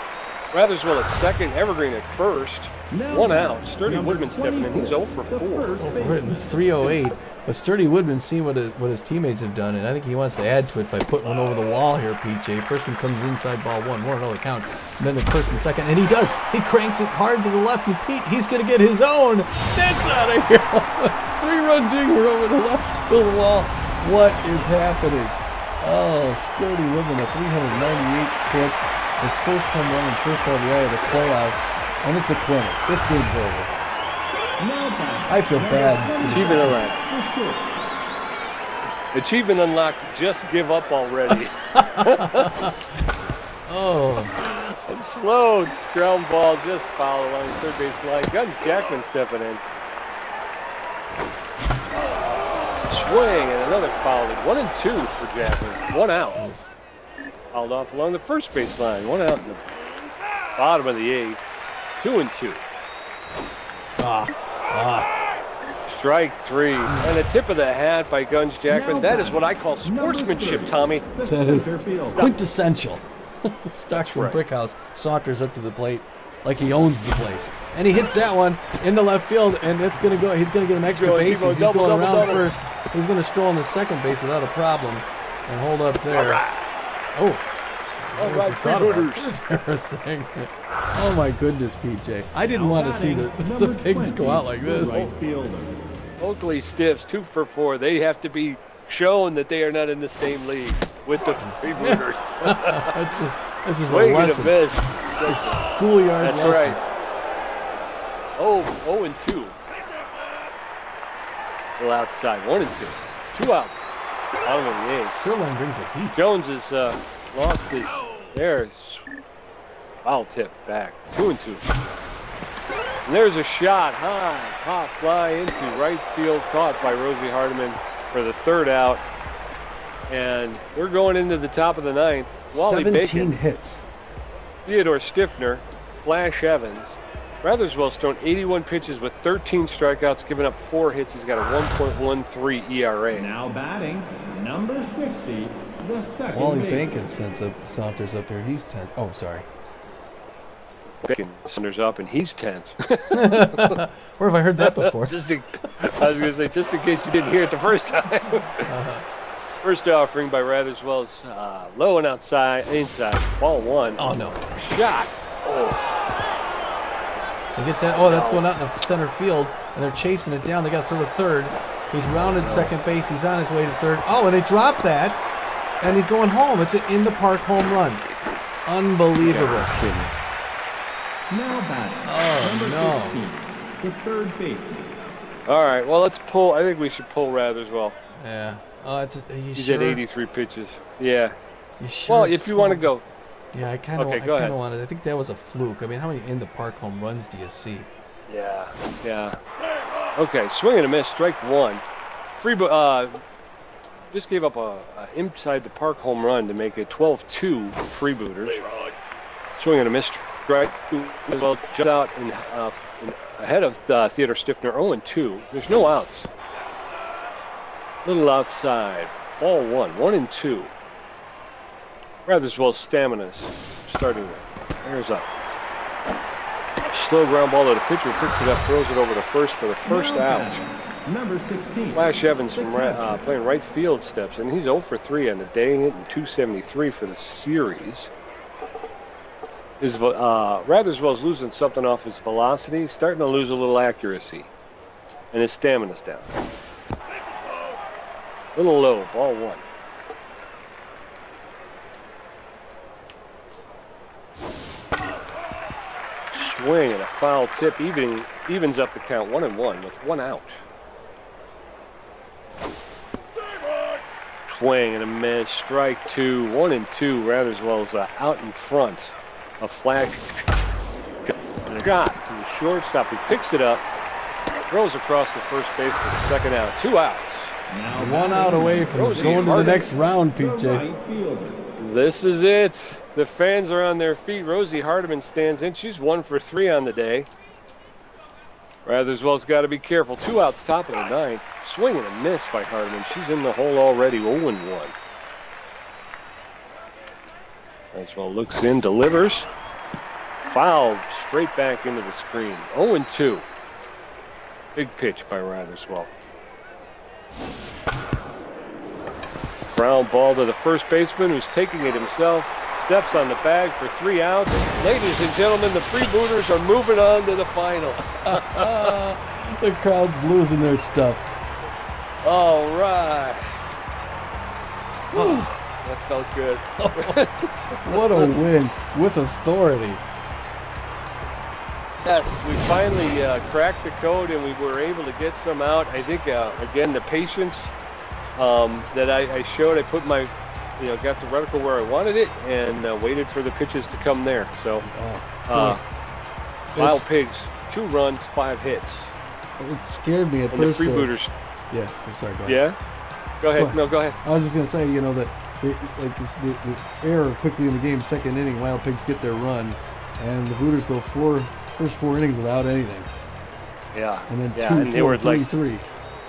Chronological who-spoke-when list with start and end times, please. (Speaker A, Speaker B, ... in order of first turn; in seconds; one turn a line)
Speaker A: 0.5-5.8
Speaker B: 2.9-6.6
Speaker C: 5.8-33.7
Speaker B: 34.6-37.9
Speaker C: 35.3-36.9
Speaker A: 36.3-37.0
Speaker A: 39.1-42.6
Speaker C: 41.7-43.1
Speaker C: 43.7-44.3
Speaker A: 44.3-49.6
Speaker A: 52.9-56.5
Speaker A: 57.5-59.7
Speaker A: 60.6-62.6
Speaker C: 64.0-65.1
Speaker A: 65.9-71.1
Speaker C: 66.9-67.2
Speaker B: 68.7-72.3
Speaker C: 71.2-86.4
Speaker A: 73.9-74.4
Speaker A: 80.9-82.5
Speaker A: 86.1-86.6
Speaker C: 87.1-87.4
Speaker C: 88.0-95.0
Speaker A: 88.2-89.3
Speaker B: 92.5-95.8
Speaker A: 94.8-95.1
Speaker A: 96.2-103.0
Speaker C: 101.5-104.6
Speaker A: 103.8-105.6
Speaker C: 105.2-106.8
Speaker A: 106.2-106.8
Speaker A: 108.4-109.6
Speaker A: 111.8-113.9
Speaker A: 114.4-115.2
Speaker C: 115.0-116.2
Speaker A: 116.1-119.1
Speaker A: 120.0-121.7
Speaker A: 123.0-129.0
Speaker A: 130.1-133.3
Speaker C: 132.5-133.9
Speaker A: 134.7-143.3
Speaker B: 143.2-146.9
Speaker C: 146.3-149.5
Speaker A: 151.0-153.8
Speaker C: 153.1-155.7
Speaker A: 154.6-158.7
Speaker C: 158.6-159.0
Speaker A: 159.6-165.8
Speaker C: 164.0-164.4
Speaker C: 167.6-175.2
Speaker A: 167.9-168.5
Speaker A: 172.4-172.7
Speaker C: 175.8-178.1
Speaker C: 178.7-179.8
Speaker A: 179.2-180.1
Speaker B: 181.3-184.9
Speaker C: 182.0-183.2
Speaker A: 185.5-188.0
Speaker C: 188.2-190.0
Speaker A: 189.6-191.4
Speaker C: 191.8-192.9
Speaker A: 192.1-193.1
Speaker C: 193.5-197.9
Speaker A: 193.9-194.6
Speaker A: 198.3-199.4
Speaker A: 200.2-201.8
Speaker A: 202.4-203.2
Speaker A: 204.1-208.6
Speaker A: 209.6-216.3
Speaker A: 218.1-220.7
Speaker A: 222.3-225.3
Speaker A: 226.9-230.6
Speaker B: 229.9-233.2
Speaker A: 231.9-238.1
Speaker A: 239.8-244.5
Speaker A: 245.3-246.3
Speaker A: 248.6-249.6
Speaker A: 256.3-260.6
Speaker A: 264.5-270.4
Speaker A: 271.3-273.9
Speaker A: 274.7-277.6
Speaker B: 277.7-281.6
Speaker C: 277.9-280.9
Speaker A: 278.9-279.8
Speaker A: 281.8-287.3
Speaker A: 288.9-294.9
Speaker A: 297.9-299.5
Speaker A: 300.4-303.5
Speaker A: 304.8-306.1
Speaker A: 309.8-319.0
Speaker C: 318.2-321.4
Speaker A: 322.2-323.6
Speaker C: 325.1-325.5
Speaker A: 325.1-328.3
Speaker C: 326.8-330.0
Speaker A: 332.0-337.7
Speaker A: 338.4-344.9
Speaker C: 344.9-345.8
Speaker A: 345.5-345.8
Speaker C: 346.8-347.1
Speaker A: 346.8-349.1
Speaker C: 349.6-351.1
Speaker A: 350.5-351.3
Speaker C: 351.7-352.6
Speaker A: 352.5-352.8
Speaker A: 353.4-354.2
Speaker C: 353.6-363.1
Speaker A: 363.9-365.4
Speaker C: 364.3-365.9